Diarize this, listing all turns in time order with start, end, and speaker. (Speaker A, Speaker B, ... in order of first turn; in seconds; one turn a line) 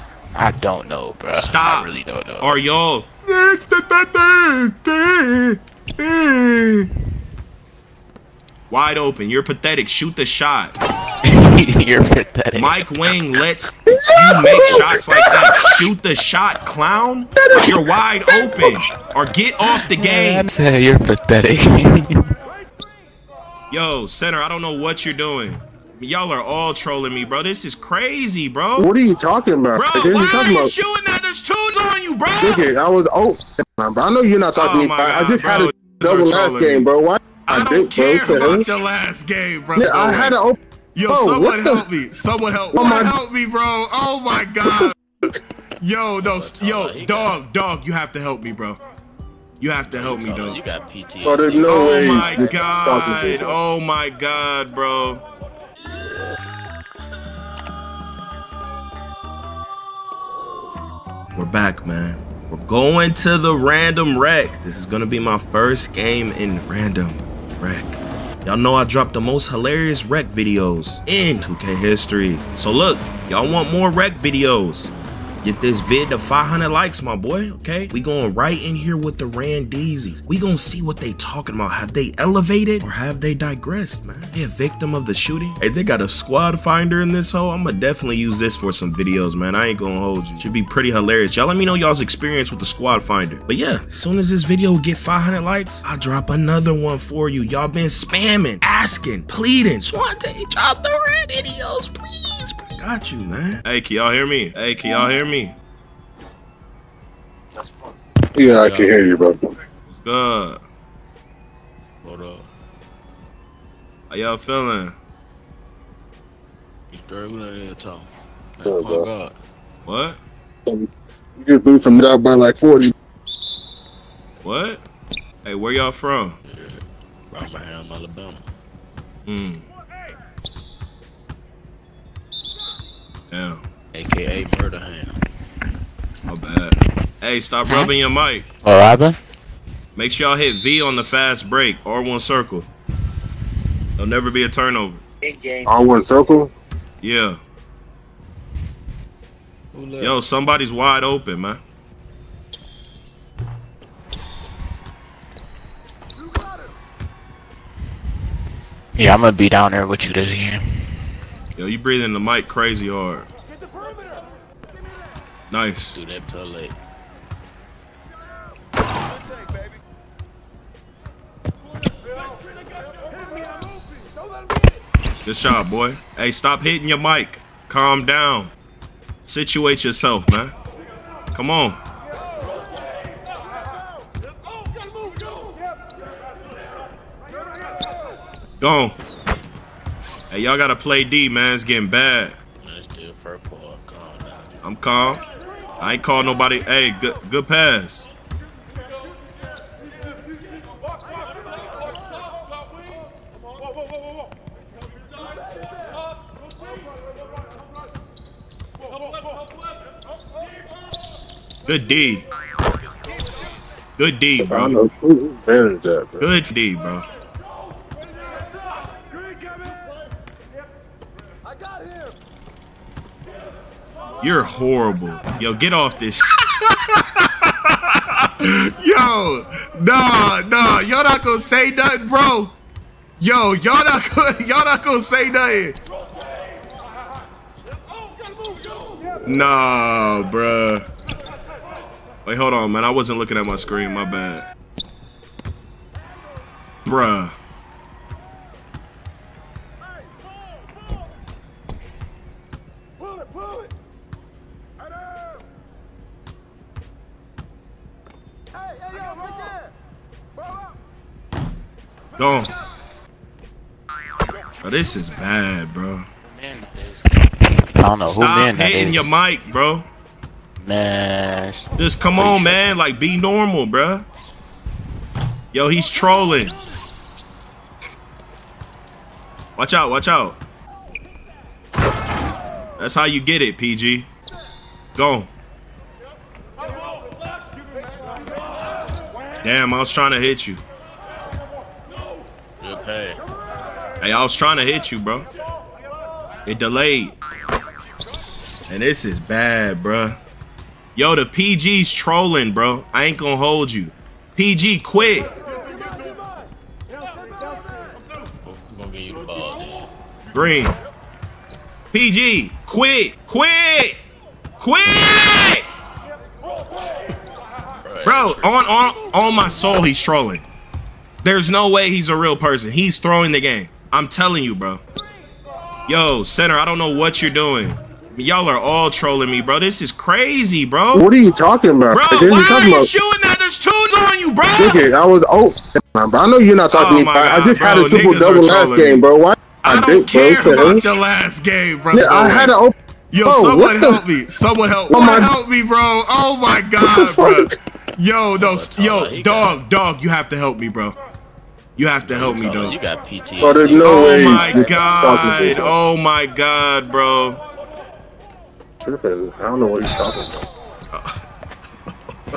Speaker A: 0.3-2.5
Speaker B: 1.3-6.9
Speaker B: 8.7-10.7
Speaker A: 11.2-12.9
Speaker B: 12.5-20.5
Speaker C: 13.9-15.7
Speaker C: 17.4-18.8
Speaker A: 19.9-22.3
Speaker B: 23.7-28.9
Speaker C: 28.8-30.7
Speaker B: 29.7-32.7
Speaker C: 32.4-38.7
Speaker B: 34.5-36.9
Speaker B: 37.5-40.4
Speaker C: 39.8-40.6
Speaker B: 40.9-45.0
Speaker C: 41.1-41.8
Speaker C: 42.7-43.1
Speaker B: 45.8-48.8
Speaker D: 46.2-47.4
Speaker B: 49.6-50.6
Speaker D: 49.9-52.5
Speaker C: 51.2-53.6
Speaker B: 51.6-55.2
Speaker B: 61.4-74.9
Speaker B: 75.4-105.5
Speaker C: 108.3-109.4
Speaker D: 108.6-109.0
Speaker B: 109.9-110.6
Speaker D: 112.0-112.5
Speaker B: 114.1-115.0
Speaker D: 116.9-119.3
Speaker C: 118.6-119.1
Speaker B: 119.8-120.2
Speaker C: 120.7-122.9
Speaker B: 124.4-124.8
Speaker B: 125.4-126.4
Speaker D: 126.4-128.4
Speaker B: 129.2-129.6
Speaker B: 133.3-133.6
Speaker D: 133.9-135.2
Speaker B: 136.3-138.4
Speaker A: 137.6-137.9
Speaker A: 138.6-139.2
Speaker B: 139.9-142.7
Speaker B: 144.0-145.0
Speaker C: 145.7-146.5
Speaker B: 147.0-147.4
Speaker D: 149.7-150.2
Speaker B: 150.0-151.6
Speaker A: 158.9-160.6
Speaker B: 161.6-163.3
Speaker B: 165.5-165.9
Speaker D: 165.9-166.7
Speaker B: 175.2-178.5
Speaker B: 179.2-180.5
Speaker B: 181.3-181.8
Speaker B: 188.6-188.9
Speaker B: 190.3-192.4
Speaker D: 192.6-194.5
Speaker B: 194.6-195.2
Speaker B: 195.8-198.1
Speaker B: 211.6-212.3
Speaker B: 214.0-214.8
Speaker C: 214.4-216.2
Speaker B: 216.2-217.0
Speaker B: 224.2-232.5
Speaker B: 233.2-235.8
Speaker B: 239.2-240.8
Speaker B: 242.2-244.4
Speaker B: 246.8-247.3
Speaker B: 262.2-262.5
Speaker B: 264.6-266.1
Speaker A: 266.3-267.2
Speaker A: 267.8-269.1
Speaker B: 268.1-269.9
Speaker A: 270.6-272.7
Speaker B: 271.8-274.1
Speaker B: 275.5-276.5
Speaker B: 279.6-280.4
Speaker B: 282.8-284.1
Speaker B: 284.9-285.3
Speaker B: 289.4-290.6
Speaker D: 292.6-293.2
Speaker B: 294.0-295.3
Speaker B: 296.4-297.1
Speaker B: 298.7-300.2
Speaker B: 300.9-305.3
Speaker D: 308.4-309.9
Speaker B: 310.3-310.8
Speaker B: 311.9-314.0
Speaker B: 314.6-315.6
Speaker D: 317.8-318.6
Speaker B: 318.0-320.4
Speaker B: 321.2-324.8
Speaker B: 325.9-331.1
Speaker C: 330.9-332.9
Speaker B: 331.9-334.9
Speaker C: 334.6-340.9
Speaker B: 336.7-339.0
Speaker B: 339.6-342.5
Speaker C: 341.9-342.7
Speaker B: 343.1-350.9
Speaker C: 343.2-344.0
Speaker C: 344.9-345.3
Speaker C: 346.8-347.5
Speaker D: 348.4-349.6
Speaker B: 351.8-352.8
Speaker D: 352.0-354.8
Speaker C: 353.4-355.7
Speaker B: 353.8-357.4
Speaker C: 358.8-360.5